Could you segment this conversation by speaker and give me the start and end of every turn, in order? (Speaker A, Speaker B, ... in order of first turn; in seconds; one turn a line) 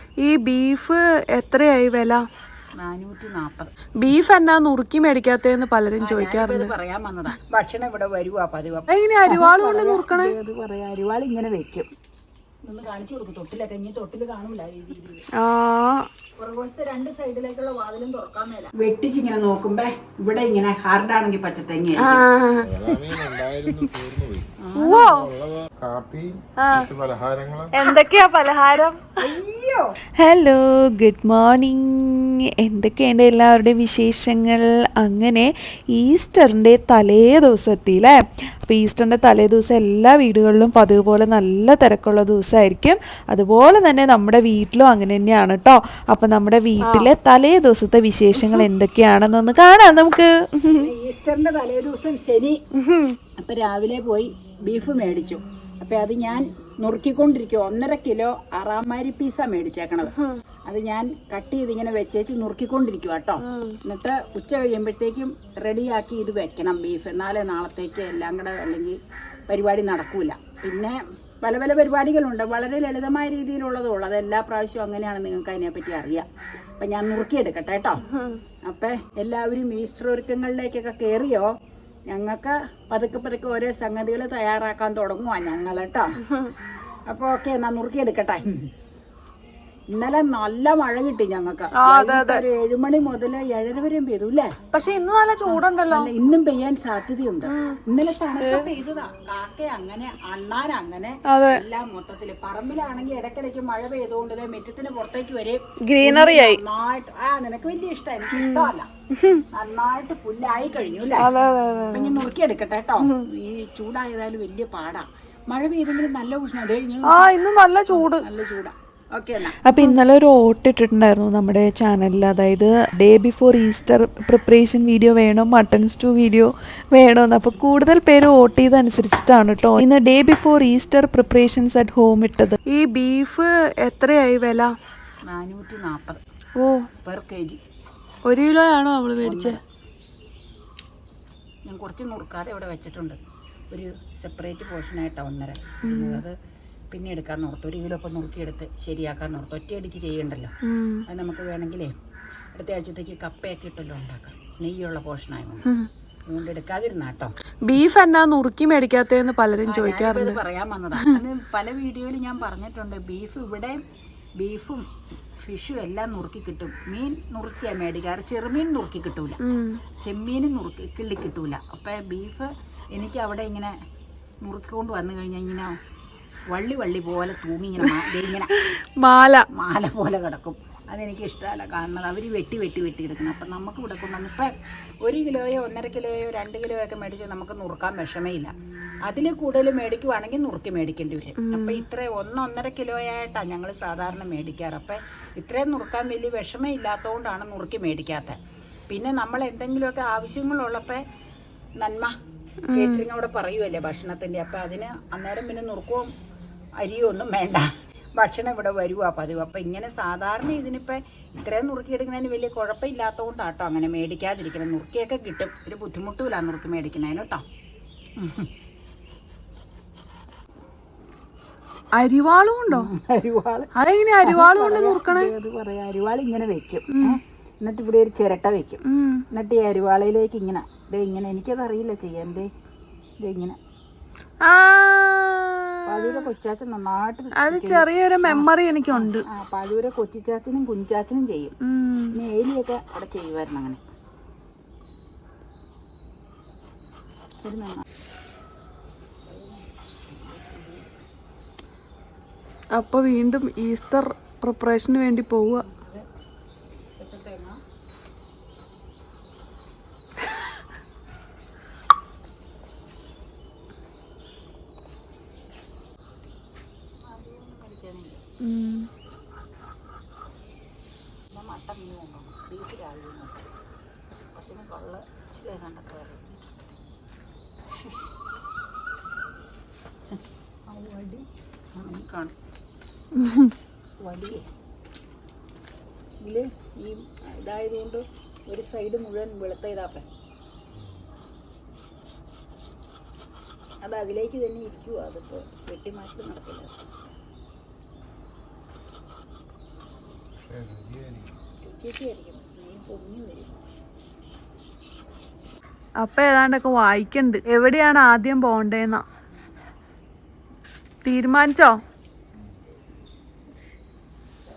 Speaker A: 0.2-2.2
Speaker B: 2.8-3.7
Speaker A: 4.0-6.7
Speaker B: 6.0-11.9
Speaker A: 8.9-10.3
Speaker B: 12.6-15.3
Speaker A: 15.3-16.1
Speaker B: 16.4-22.2
Speaker A: 22.0-22.7
Speaker C: 22.6-27.7
Speaker B: 24.6-25.1
Speaker A: 24.8-25.3
Speaker A: 26.6-26.9
Speaker A: 27.7-29.2
Speaker B: 29.2-29.9
Speaker D: 30.2-50.9
Speaker A: 46.8-47.1
Speaker A: 48.4-48.6
Speaker B: 50.7-52.6
Speaker A: 52.8-53.2
Speaker B: 53.4-60.1
Speaker A: 60.1-60.4
Speaker B: 60.7-76.3
Speaker A: 63.4-63.8
Speaker B: 76.8-78.0
Speaker A: 78.1-78.4
Speaker B: 78.6-81.5
Speaker B: 82.1-86.2
Speaker B: 87.1-88.6
Speaker B: 89.9-94.5
Speaker A: 91.8-92.4
Speaker A: 94.7-96.1
Speaker B: 95.5-108.9
Speaker A: 97.5-97.8
Speaker A: 98.4-98.7
Speaker A: 101.3-101.6
Speaker A: 105.9-106.6
Speaker A: 108.3-109.4
Speaker B: 109.5-111.3
Speaker A: 111.2-112.2
Speaker B: 111.9-117.3
Speaker A: 113.0-113.3
Speaker A: 117.1-118.2
Speaker B: 117.9-119.6
Speaker D: 119.6-132.6
Speaker A: 132.7-134.7
Speaker B: 135.3-136.2
Speaker A: 136.6-136.9
Speaker B: 137.0-137.6
Speaker A: 138.2-139.6
Speaker B: 139.2-139.6
Speaker B: 141.7-143.2
Speaker B: 143.7-146.4
Speaker A: 145.9-146.2
Speaker B: 146.9-150.5
Speaker A: 150.6-151.0
Speaker B: 151.1-151.9
Speaker B: 152.5-155.7
Speaker B: 156.3-157.3
Speaker A: 157.7-160.4
Speaker B: 159.7-163.8
Speaker B: 164.4-164.9
Speaker B: 165.4-169.4
Speaker A: 169.4-169.8
Speaker B: 170.0-173.7
Speaker B: 174.4-175.8
Speaker B: 176.5-178.6
Speaker A: 178.5-179.4
Speaker B: 179.5-188.5
Speaker B: 189.0-198.4
Speaker A: 191.4-191.9
Speaker B: 198.9-201.0
Speaker B: 201.8-202.2
Speaker A: 202.7-203.0
Speaker B: 202.7-206.1
Speaker B: 206.8-217.4
Speaker B: 218.2-218.5
Speaker A: 222.0-222.9
Speaker B: 222.7-223.7
Speaker A: 223.8-225.3
Speaker B: 224.2-228.8
Speaker A: 226.9-227.2
Speaker A: 228.8-229.2
Speaker B: 229.3-232.5
Speaker B: 233.2-233.6
Speaker A: 234.4-236.3
Speaker B: 235.9-241.6
Speaker A: 237.4-239.2
Speaker A: 241.6-242.2
Speaker B: 242.1-243.8
Speaker B: 247.4-247.8
Speaker B: 249.3-250.9
Speaker A: 252.7-255.7
Speaker B: 255.5-256.1
Speaker B: 257.0-257.6
Speaker B: 267.0-268.2
Speaker A: 268.4-268.9
Speaker B: 271.3-273.5
Speaker B: 274.3-276.3
Speaker B: 280.7-282.3
Speaker A: 283.2-283.5
Speaker B: 284.0-284.5
Speaker B: 286.2-290.1
Speaker C: 290.8-291.0
Speaker B: 293.8-296.8
Speaker C: 300.4-301.3
Speaker B: 301.6-303.6
Speaker A: 306.0-309.0
Speaker A: 311.1-311.8